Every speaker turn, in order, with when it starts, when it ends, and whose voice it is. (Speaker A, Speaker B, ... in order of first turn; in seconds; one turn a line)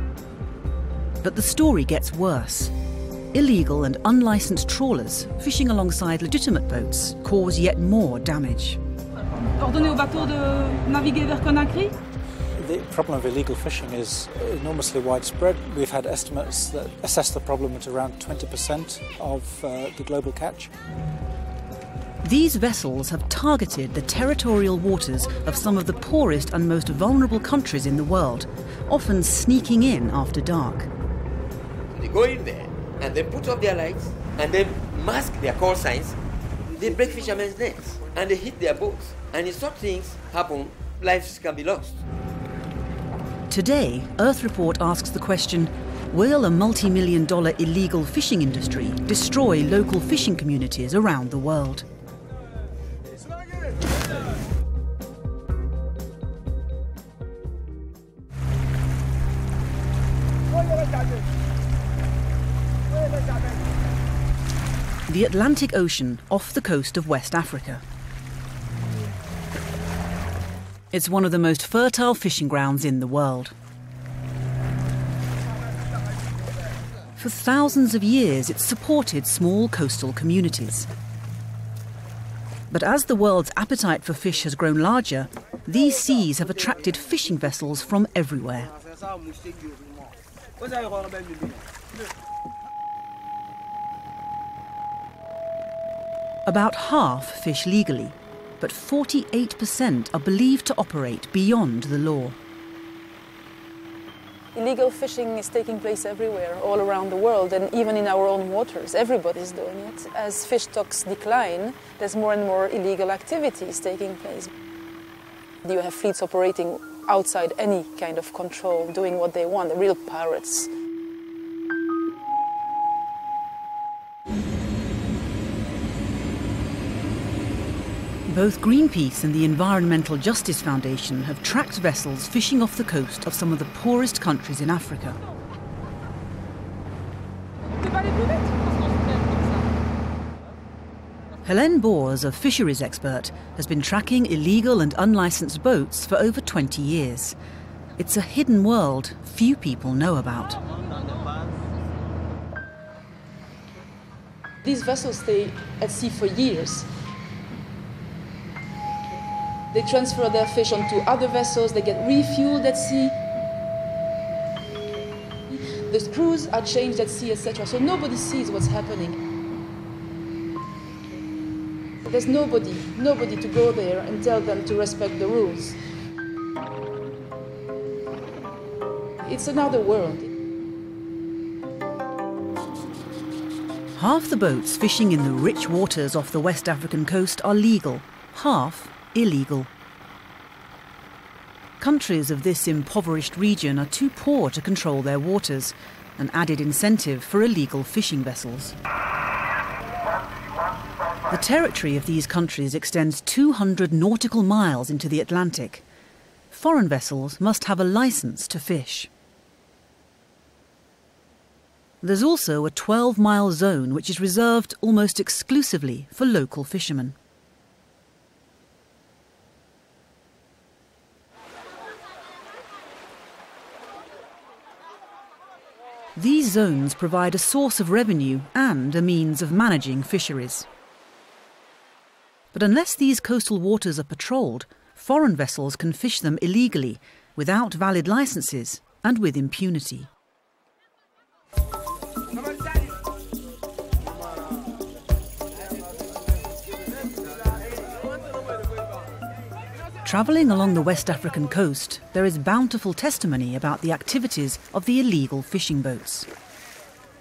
Speaker A: 1.2-2.7
Speaker A: 3.3-8.8
Speaker B: 9.4-12.0
Speaker C: 12.6-20.7
Speaker A: 22.2-30.9
Speaker D: 31.9-36.2
Speaker D: 36.7-42.0
Speaker A: 43.5-51.9
Speaker A: 65.1-67.8
Speaker A: 70.9-73.5
Speaker A: 77.2-80.9
Speaker A: 82.7-88.7
Speaker A: 96.5-102.4
Speaker E: 104.5-114.5
Speaker E: 115.6-120.7
Speaker A: 128.3-135.2
Speaker B: 137.8-139.6
Speaker A: 141.4-147.4
Speaker A: 148.0-150.6
Speaker E: 154.6-156.9
Speaker E: 159.7-163.2
Speaker E: 165.5-169.2
Speaker E: 172.0-175.8
Speaker E: 179.2-180.3
Speaker A: 184.0-189.7
Speaker A: 191.8-198.8
Speaker A: 201.3-205.8
Speaker A: 206.5-209.1
Speaker A: 212.0-217.2
Speaker A: 226.2-230.7
Speaker A: 232.5-240.1
Speaker A: 250.0-256.3